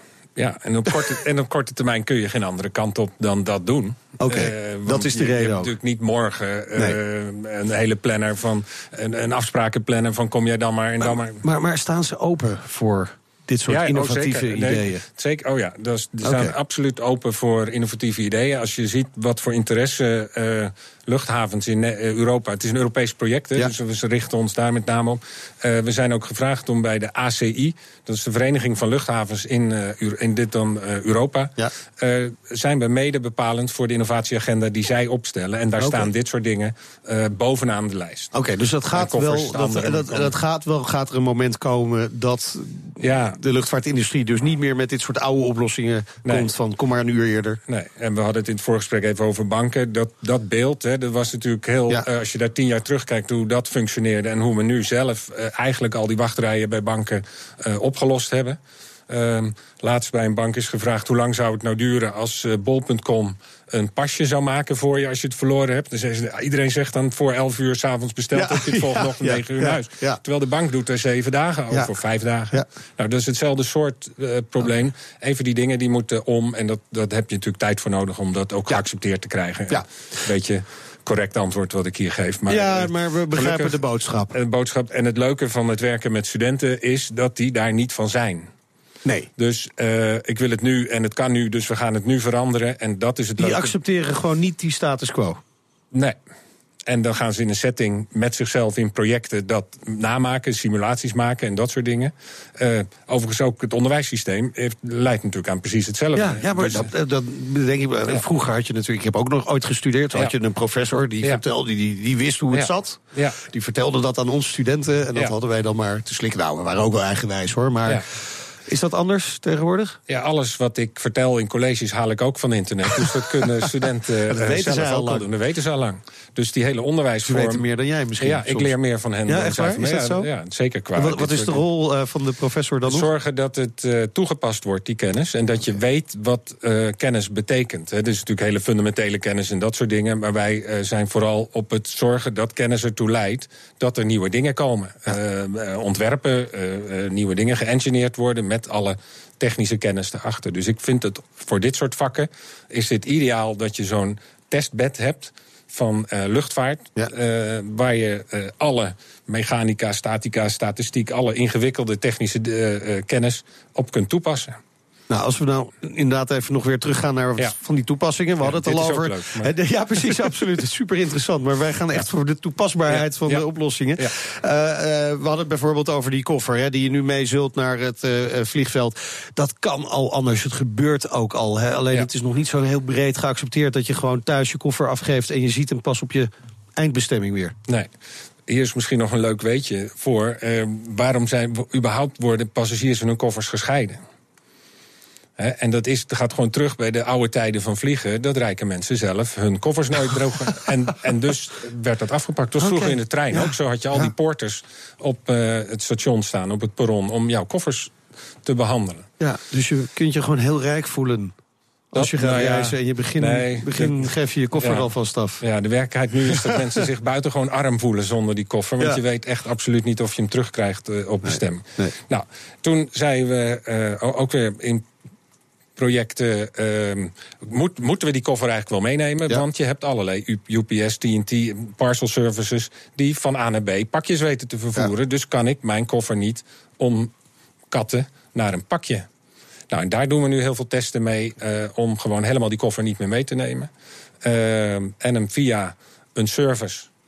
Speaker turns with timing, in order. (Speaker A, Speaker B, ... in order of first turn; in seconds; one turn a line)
Speaker A: 0.4-11.4
Speaker B: 4.2-5.7
Speaker B: 11.0-15.0
Speaker A: 13.7-38.3
Speaker B: 16.2-16.6
Speaker B: 35.8-36.1
Speaker B: 38.3-47.6
Speaker A: 38.9-40.3
Speaker A: 43.0-43.4
Speaker A: 47.7-58.6
Speaker A: 59.1-83.8
Speaker B: 68.3-70.2
Speaker B: 82.5-84.3
Speaker A: 84.3-88.5
Speaker A: 89.4-93.7
Speaker B: 93.4-95.4
Speaker A: 96.9-106.9
Speaker B: 106.2-118.0
Speaker A: 112.5-113.4
Speaker B: 118.7-120.0
Speaker A: 120.1-127.6
Speaker B: 124.3-125.2
Speaker B: 127.2-128.7
Speaker A: 128.2-131.6
Speaker B: 129.3-130.3
Speaker B: 130.9-133.1
Speaker A: 132.9-164.6
Speaker B: 165.1-187.6
Speaker A: 168.4-169.5
Speaker A: 172.9-173.4
Speaker A: 188.5-194.0
Speaker A: 195.4-207.9
Speaker B: 202.6-204.1
Speaker A: 208.4-209.1
Speaker B: 209.2-211.3
Speaker B: 211.9-215.4
Speaker A: 211.9-214.9
Speaker A: 215.4-224.8
Speaker B: 216.3-216.8
Speaker B: 221.3-221.9
Speaker A: 225.8-237.1
Speaker A: 237.7-239.1
Speaker A: 239.7-243.7
Speaker A: 244.2-246.9